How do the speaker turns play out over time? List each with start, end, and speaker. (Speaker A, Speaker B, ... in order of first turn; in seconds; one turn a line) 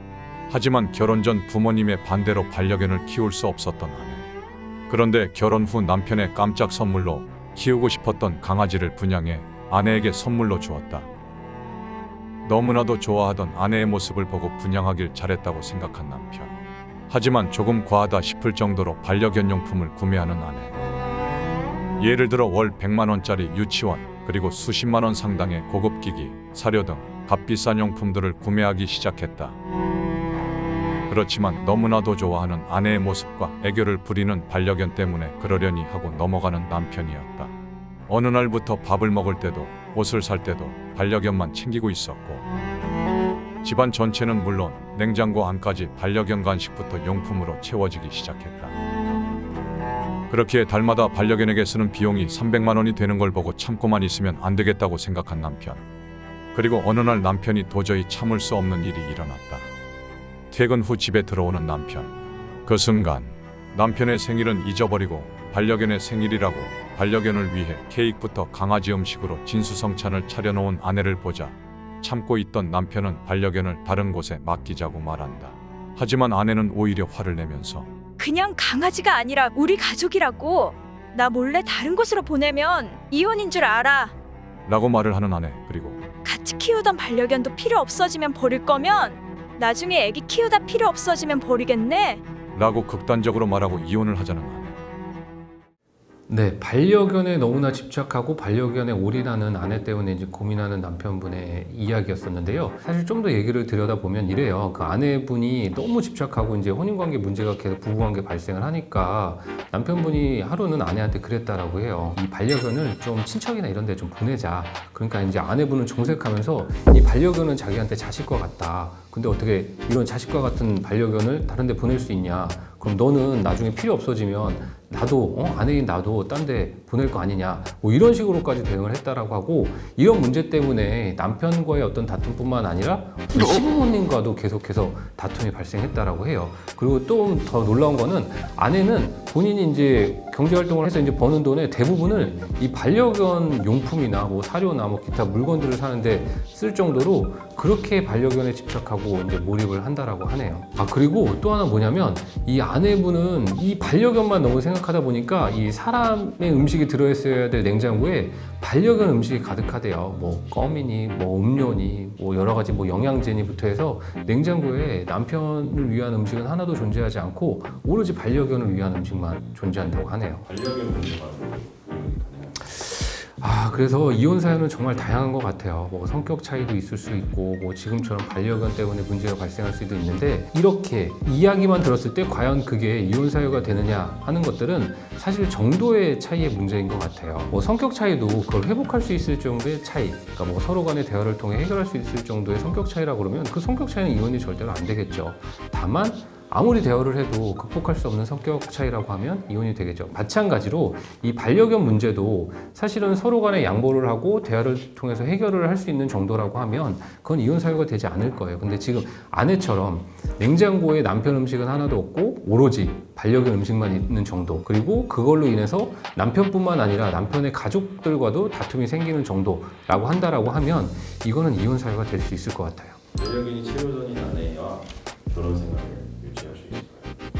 Speaker A: 0.5-4.3
Speaker A: 4.9-11.1
Speaker A: 12.4-16.5
Speaker A: 17.1-20.7
Speaker A: 22.0-29.6
Speaker A: 31.1-37.5
Speaker A: 38.1-42.4
Speaker A: 43.6-48.7
Speaker A: 50.3-55.8
Speaker A: 56.5-59.7
Speaker A: 60.5-62.1
Speaker A: 62.6-77.9
Speaker B: 78.2-84.1
Speaker A: 84.7-86.0
Speaker B: 86.2-92.2
Speaker A: 92.5-94.8
Speaker C: 96.3-170.5
Speaker D: 170.4-172.7
Speaker C: 172.7-223.0
Speaker D: 223.2-227.2